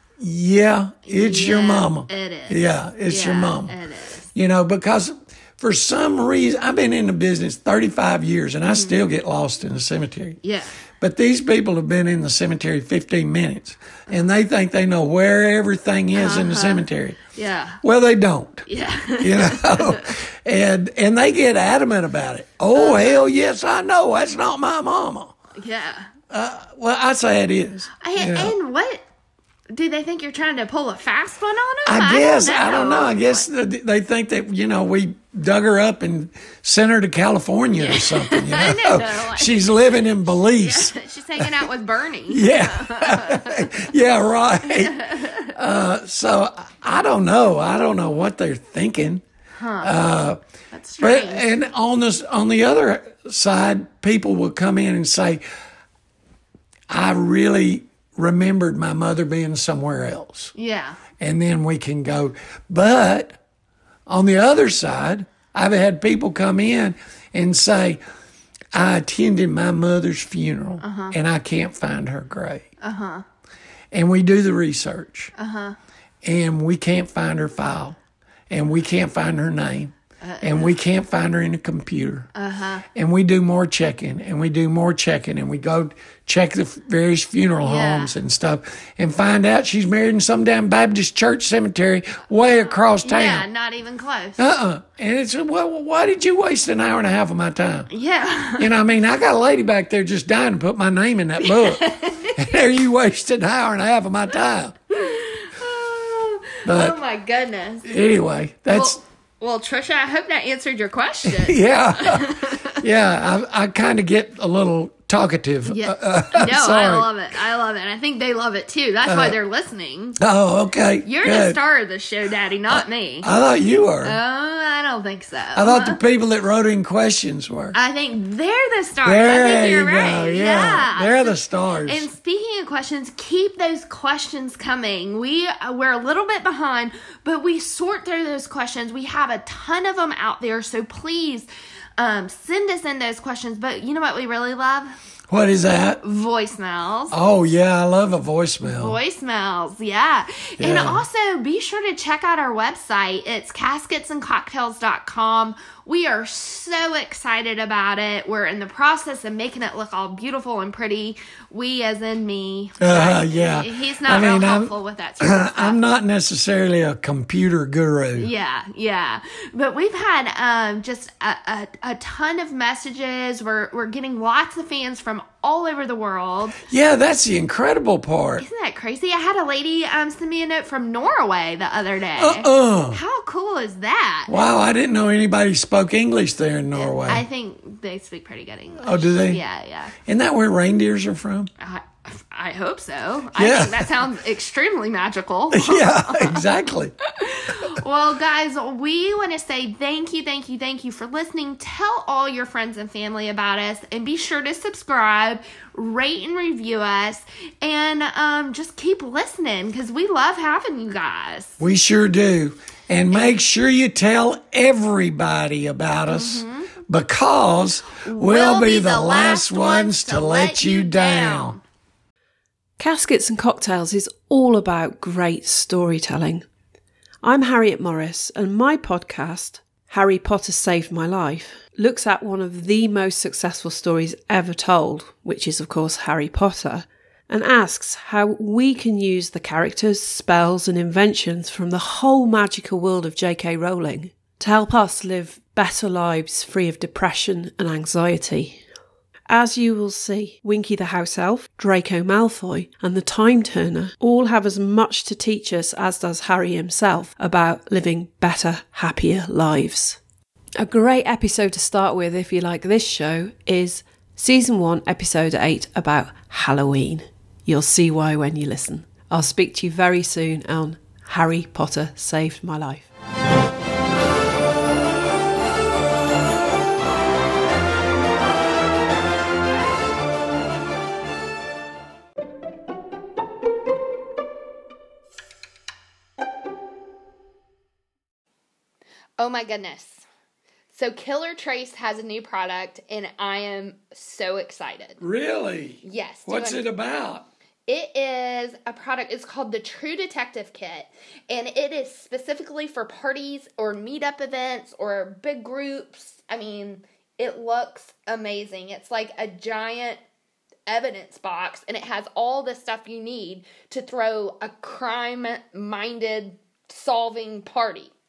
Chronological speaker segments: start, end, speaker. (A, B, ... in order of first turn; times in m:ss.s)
0:00.2-0:03.8 A
0:01.0-0:04.3 B
0:04.3-0:10.4 A
0:08.7-0:09.0 B
0:10.4-0:10.7 B
0:11.0-0:17.2 A
0:16.1-0:17.8 B
0:17.8-0:18.7 A
0:18.7-0:20.2 B
0:19.2-0:25.3 A
0:22.7-0:23.2 B
0:25.6-0:26.1 B
0:26.3-0:28.5 A
0:28.0-0:29.0 B
0:29.7-0:33.4 B
0:31.8-0:41.6 A
0:37.8-0:43.7 B
0:42.3-0:49.2 A
0:44.8-0:45.5 B
0:49.6-0:49.9 B
0:49.8-0:50.4 A
0:50.7-0:51.5 B
0:51.0-0:55.4 A
0:56.9-1:00.5 A
1:00.5-1:01.0 B
1:01.2-1:03.4 A
1:04.1-1:08.0 A
1:08.7-1:12.7 A
1:10.8-1:11.1 B
1:12.8-1:13.2 B
1:13.9-1:15.3 A
1:15.4-1:15.8 B
1:16.2-1:18.0 A
1:18.5-1:22.3 A
1:20.2-1:20.7 B
1:22.3-1:22.8 B
1:22.9-1:33.5 A
1:27.6-1:28.1 B
1:33.0-1:34.4 B
1:34.4-1:37.9 A
1:37.9-1:38.7 B
1:38.6-1:44.8 A
1:41.4-1:42.4 B
1:44.9-1:47.9 B
1:46.6-1:47.0 A
1:47.8-1:49.0 A
1:48.7-1:52.8 B
1:51.2-1:57.1 A
1:55.6-2:00.2 B
1:59.0-1:59.4 A
2:00.2-2:01.6 A
2:01.0-2:03.4 B
2:02.7-2:04.2 A
2:04.0-2:06.0 B
2:05.5-2:07.8 A
2:07.7-2:11.3 B
2:09.0-2:12.1 A
2:11.8-2:24.9 B
2:25.3-2:26.0 A
2:26.0-2:27.2 B
2:27.1-2:29.0 A
2:28.6-2:45.8 B
2:30.6-2:31.0 A
2:42.8-2:48.3 A
2:48.2-2:56.6 B
2:56.6-2:58.4 A
2:58.4-3:04.5 B
3:02.2-3:03.0 A
3:04.3-3:07.2 A
3:06.7-3:10.0 B
3:08.8-3:09.4 A
3:10.0-3:11.5 A
3:11.6-3:16.4 B
3:13.4-3:14.0 A
3:15.5-3:16.9 A
3:17.1-3:31.6 B
3:31.6-3:41.6 A
3:36.1-3:36.7 B
3:38.0-3:41.6 B
3:42.8-3:46.4 C
3:47.2-4:08.6 C
4:09.3-4:20.0 C
4:20.6-4:32.9 C
4:49.2-4:50.0 B
4:50.7-4:55.0 B
4:55.0-4:57.3 A
4:55.8-4:56.6 B
4:57.7-5:10.0 B
5:10.7-5:17.9 B